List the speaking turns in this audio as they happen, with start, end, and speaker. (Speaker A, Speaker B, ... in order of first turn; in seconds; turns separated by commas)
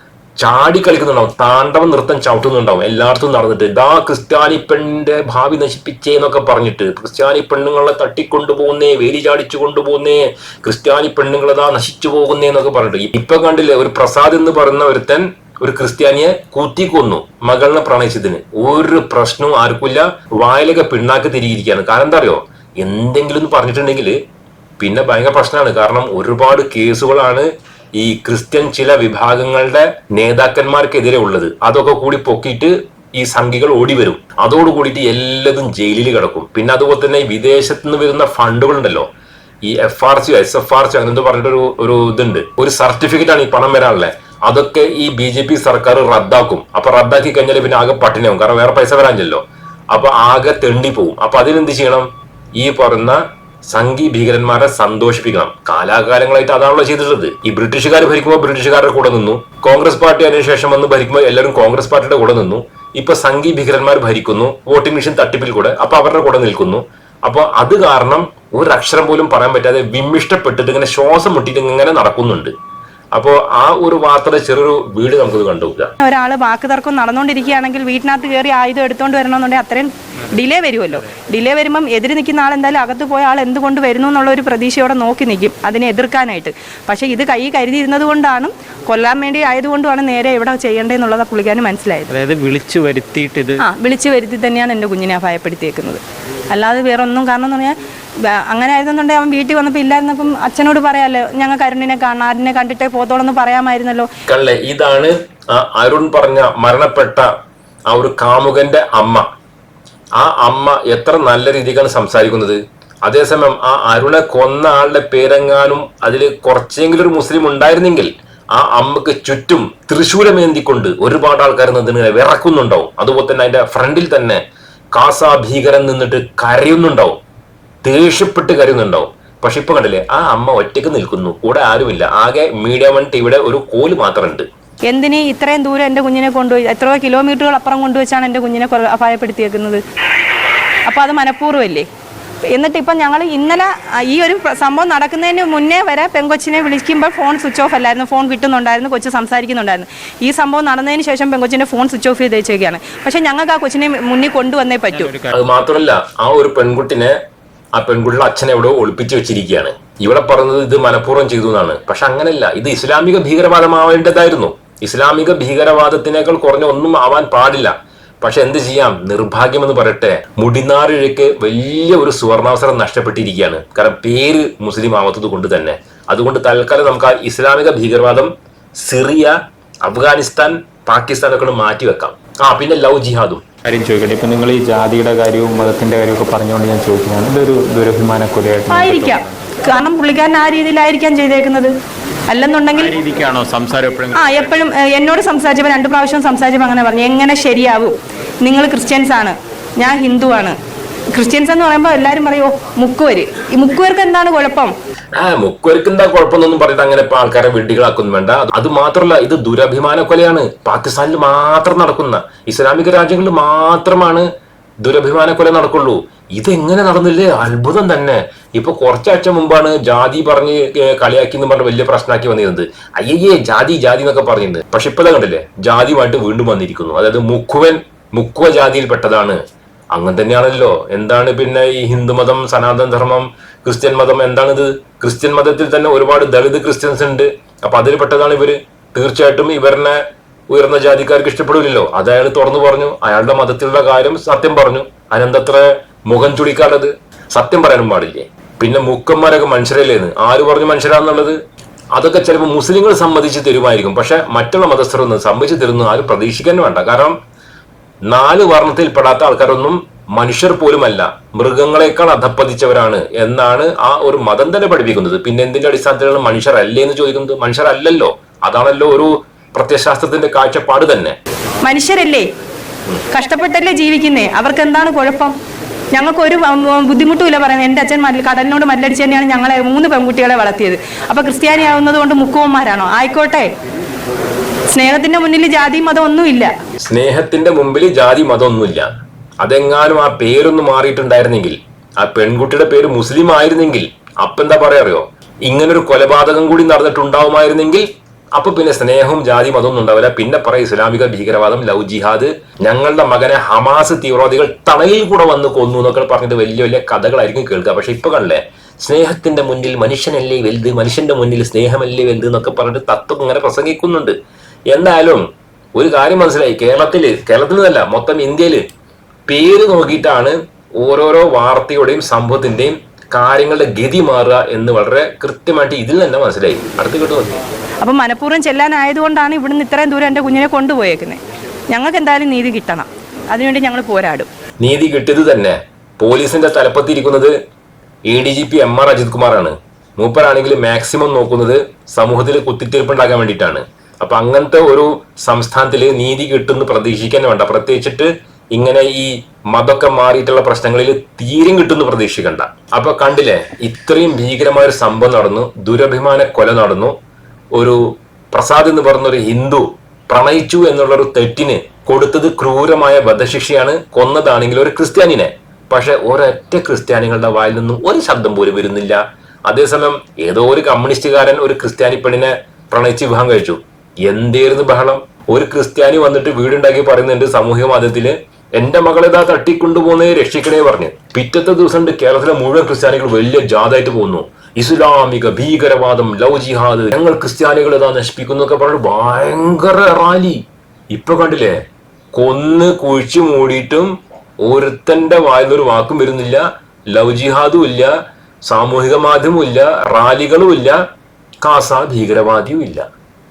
Speaker A: 0.4-24.2, Speaker A: 24.8-39.1, Speaker A: 39.6-72.5, Speaker A: 73.1-75.9, Speaker B: 76.0-92.1, Speaker C: 92.1-93.6, Speaker B: 93.6-104.1, Speaker A: 104.3-107.3, Speaker A: 107.9-109.2, Speaker A: 110.2-124.4, Speaker A: 125.0-127.2, Speaker A: 127.8-134.5, Speaker B: 134.9-139.8, Speaker B: 140.9-141.9, Speaker B: 142.5-155.1, Speaker C: 154.9-155.3, Speaker A: 155.3-157.2, Speaker A: 157.8-183.4, Speaker C: 183.6-189.4, Speaker B: 188.7-191.7, Speaker B: 192.3-193.0, Speaker C: 192.8-194.3, Speaker B: 194.1-200.6, Speaker B: 201.1-204.7, Speaker A: 205.2-214.3, Speaker A: 214.8-229.4, Speaker A: 229.9-251.4, Speaker A: 251.9-257.1, Speaker A: 258.1-271.1, Speaker B: 271.6-272.2, Speaker B: 273.1-275.3, Speaker B: 275.9-283.5, Speaker B: 284.7-286.5, Speaker A: 286.8-288.9, Speaker A: 289.4-314.1, Speaker A: 314.7-318.6, Speaker A: 319.3-327.4, Speaker B: 327.8-334.3, Speaker A: 334.6-337.3, Speaker A: 338.1-356.9, Speaker A: 357.6-391.6, Speaker A: 392.1-393.9, Speaker A: 394.4-397.9, Speaker A: 398.4-400.8, Speaker A: 401.4-402.8